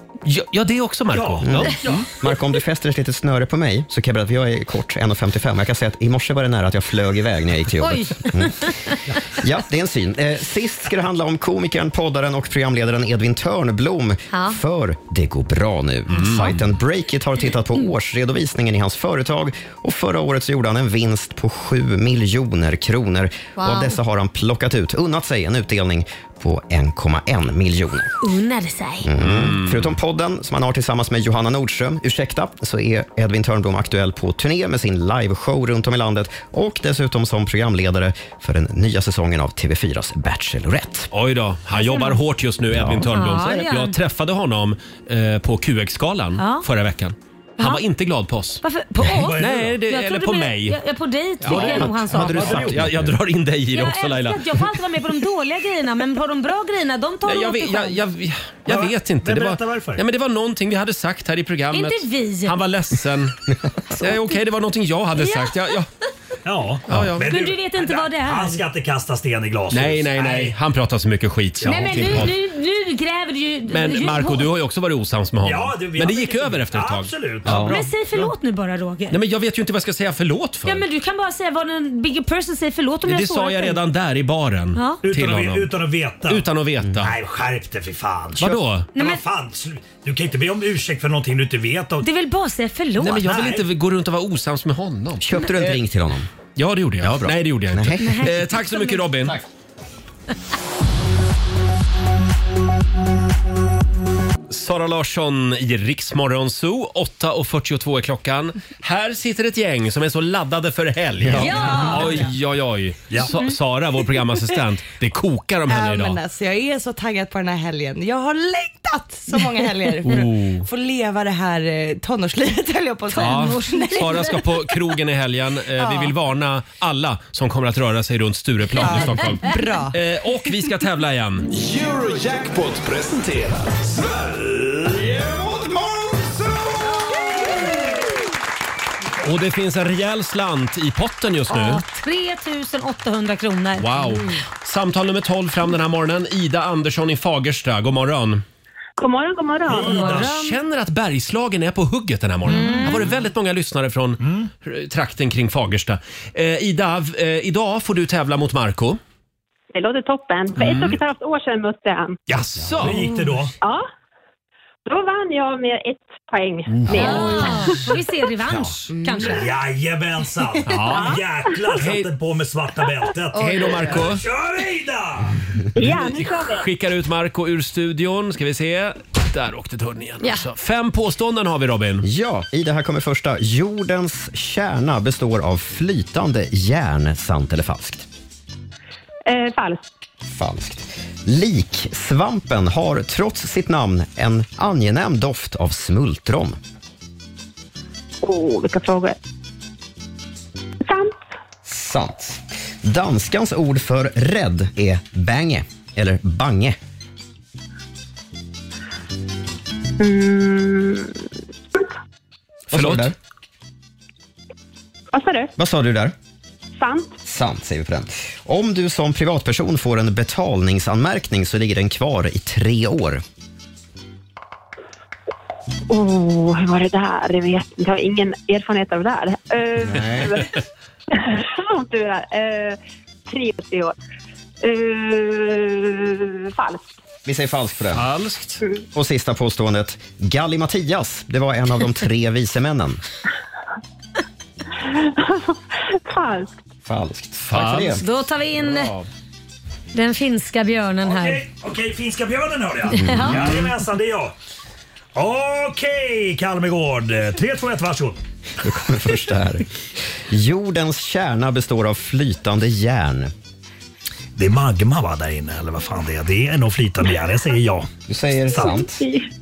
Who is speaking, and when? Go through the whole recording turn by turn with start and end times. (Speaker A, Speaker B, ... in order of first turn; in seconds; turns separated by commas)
Speaker A: 0.2-2.0, Speaker B: 1.1-2.1, Speaker C: 1.4-8.7, Speaker D: 7.8-9.0, Speaker C: 9.3-28.1, Speaker A: 16.1-16.6, Speaker D: 23.6-24.0, Speaker D: 28.2-29.1, Speaker C: 29.0-41.1, Speaker A: 29.2-30.0, Speaker A: 41.1-48.6, Speaker D: 41.8-42.2, Speaker C: 42.8-43.1, Speaker D: 43.1-44.0, Speaker D: 46.4-46.7, Speaker D: 48.6-52.7, Speaker B: 49.1-49.8, Speaker A: 49.4-50.8, Speaker A: 51.4-54.6, Speaker B: 51.5-52.8, Speaker C: 52.0-53.1, Speaker D: 53.7-58.0, Speaker A: 57.3-63.4, Speaker B: 58.7-60.0, Speaker D: 61.7-62.6, Speaker A: 63.9-65.9, Speaker D: 65.2-65.6, Speaker B: 66.5-70.6, Speaker A: 66.9-67.3, Speaker D: 67.3-68.6, Speaker A: 69.7-72.3, Speaker B: 71.6-72.3, Speaker D: 71.7-74.5, Speaker A: 73.7-77.8, Speaker B: 75.4-78.3, Speaker C: 77.5-77.7, Speaker D: 77.6-79.2, Speaker A: 79.1-80.8, Speaker D: 80.7-83.8, Speaker A: 83.1-85.7, Speaker D: 84.8-85.0, Speaker B: 85.0-86.5, Speaker A: 86.3-87.1, Speaker B: 87.0-92.1, Speaker A: 88.4-88.9, Speaker D: 89.0-89.2, Speaker D: 92.0-93.2, Speaker A: 93.0-95.8, Speaker B: 93.1-93.6, Speaker C: 95.2-96.3, Speaker A: 96.6-99.4, Speaker C: 97.0-98.3, Speaker D: 98.0-99.0, Speaker A: 104.5-116.2, Speaker C: 111.2-111.5, Speaker D: 111.4-112.2, Speaker E: 115.7-124.5, Speaker A: 120.0-120.7, Speaker D: 123.2-124.0, Speaker A: 123.2-131.5, Speaker E: 125.8-126.1, Speaker E: 128.8-130.0, Speaker F: 131.5-137.4, Speaker A: 139.2-141.8, Speaker D: 141.5-144.2, Speaker A: 143.8-148.4, Speaker G: 149.0-150.2, Speaker B: 149.7-150.4, Speaker A: 149.8-159.0, Speaker D: 150.1-150.6, Speaker D: 152.5-153.1, Speaker B: 154.2-154.5, Speaker G: 159.7-162.2, Speaker A: 160.6-161.0, Speaker A: 162.3-163.2, Speaker B: 162.8-163.5, Speaker G: 164.9-167.9, Speaker D: 166.9-169.4, Speaker B: 168.5-175.4, Speaker E: 169.0-169.3, Speaker A: 170.6-171.2, Speaker A: 171.7-172.1, Speaker A: 173.3-174.2, Speaker G: 175.8-176.6, Speaker A: 175.8-182.1, Speaker C: 182.0-188.1, Speaker G: 189.3-189.8, Speaker C: 190.3-196.6, Speaker G: 198.2-199.2, Speaker G: 200.8-201.2, Speaker C: 201.7-206.8, Speaker G: 210.0-211.1, Speaker A: 212.7-213.1, Speaker C: 212.7-213.2, Speaker G: 215.1-215.5, Speaker C: 215.6-216.2, Speaker G: 216.8-217.1, Speaker C: 217.2-223.2, Speaker G: 225.9-230.6, Speaker C: 229.8-230.4, Speaker G: 231.1-233.9, Speaker G: 234.6-236.8, Speaker C: 237.3-238.1, Speaker A: 237.9-238.6, Speaker C: 238.9-243.0, Speaker G: 244.9-246.5, Speaker C: 246.8-248.0, Speaker A: 247.5-248.0, Speaker D: 248.0-248.9, Speaker A: 248.6-249.1, Speaker D: 249.9-251.4, Speaker B: 251.0-254.3, Speaker D: 252.9-253.6, Speaker C: 253.0-253.4, Speaker B: 255.2-258.2, Speaker C: 258.6-259.7, Speaker C: 260.3-263.3, Speaker B: 264.4-267.9, Speaker C: 268.1-269.1, Speaker G: 268.5-269.2